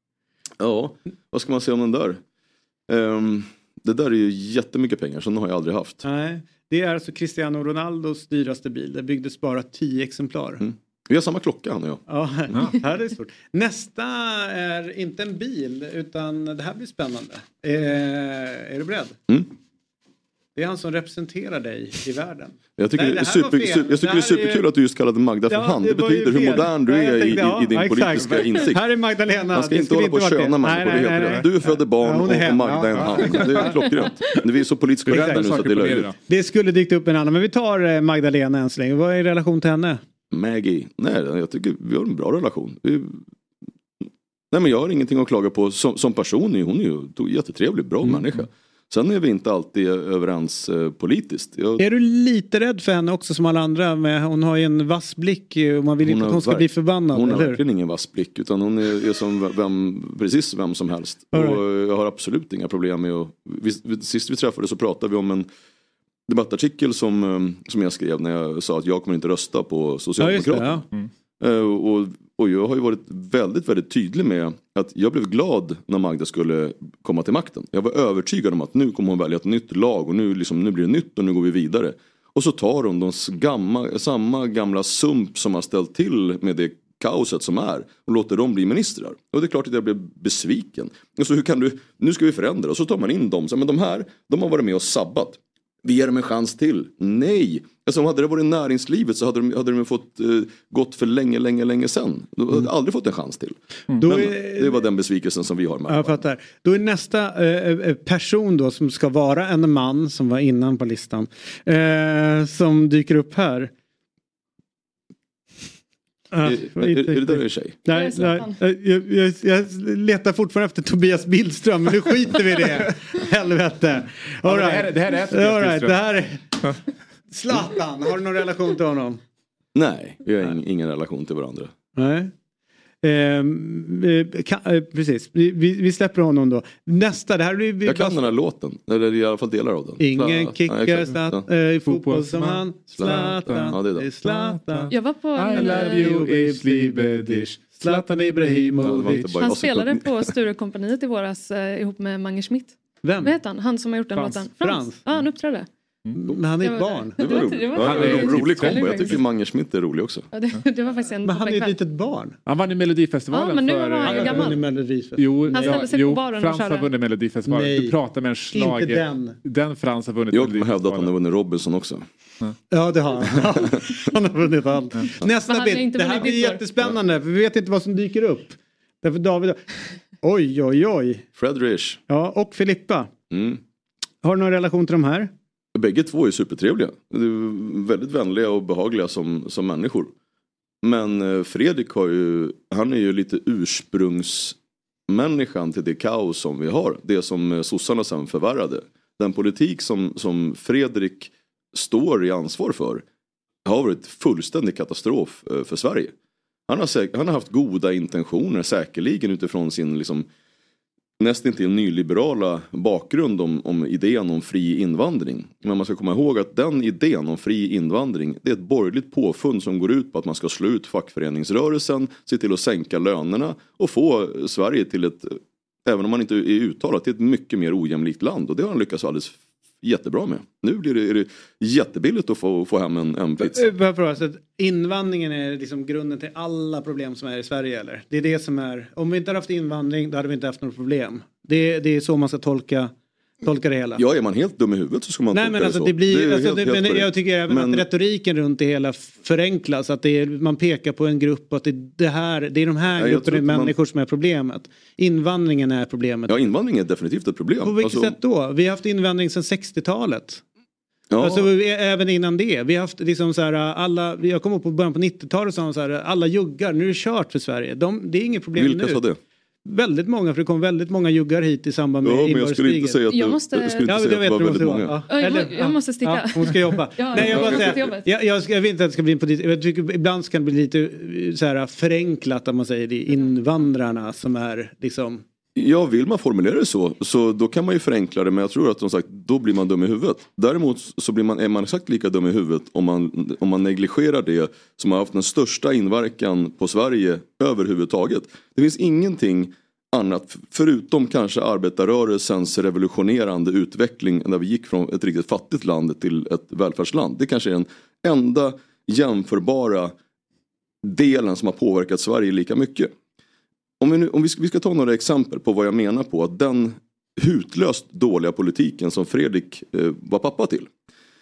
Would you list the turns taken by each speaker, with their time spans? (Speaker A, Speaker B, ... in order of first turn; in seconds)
Speaker A: 0.6-2.2, 2.9-6.0, 10.6-12.0, 22.8-28.9, 29.5-36.1, 40.3-43.2, 44.5-51.8, 56.0-65.5, 66.3-70.9, 71.4-106.2, 116.4-117.8, 129.7-131.7, 137.8-141.5, 142.9-144.1, 148.8-150.3, 157.2-160.3, 170.3-172.0, 173.4-173.7, 181.3-182.0, 183.3-183.6, 185.7-190.1, 190.8-194.6, 195.1-203.0, 203.6-206.1, 206.7-210.3, 211.2-233.7, 243.9-247.9, 252.9-253.7, 256.3-258.1, 261.1-261.5, 268.5-269.2, 272.0-275.0, 277.1-277.9, 285.6-309.9, 310.8-312.9, 313.8-320.7
Speaker B: 6.0-10.6, 12.1-19.1, 20.5-24.7, 25.5-33.7, 35.1-35.6, 36.3-40.0, 51.8-57.6, 61.3-61.6, 70.2-70.8, 104.0-104.8, 105.9-113.7, 116.3-126.6, 127.3-129.2, 131.9-132.3, 133.0-138.2, 140.0-144.9, 145.5-147.0, 147.8-149.2, 153.0-153.3, 154.6-155.0, 156.2-157.2, 161.2-162.4, 164.0-165.9, 167.4-168.0, 168.5-169.4, 172.7-181.2, 182.1-183.1, 184.2-185.3, 233.4-242.9, 243.4-244.0, 245.3-256.4, 257.6-260.4, 261.2-269.0, 269.6-273.0, 273.9-285.2
Speaker C: 31.1-31.5, 32.9-33.7, 35.0-36.1, 124.4-126.1, 141.8-149.5, 154.2-154.5, 157.8-159.2, 162.4-164.6, 165.2-171.1
Speaker D: 117.9-118.5, 144.9-146.1, 149.4-155.7, 156.6-159.2, 160.3-161.8, 163.3-164.6, 165.5-166.9, 175.5-176.6, 273.1-273.9, 275.1-278.1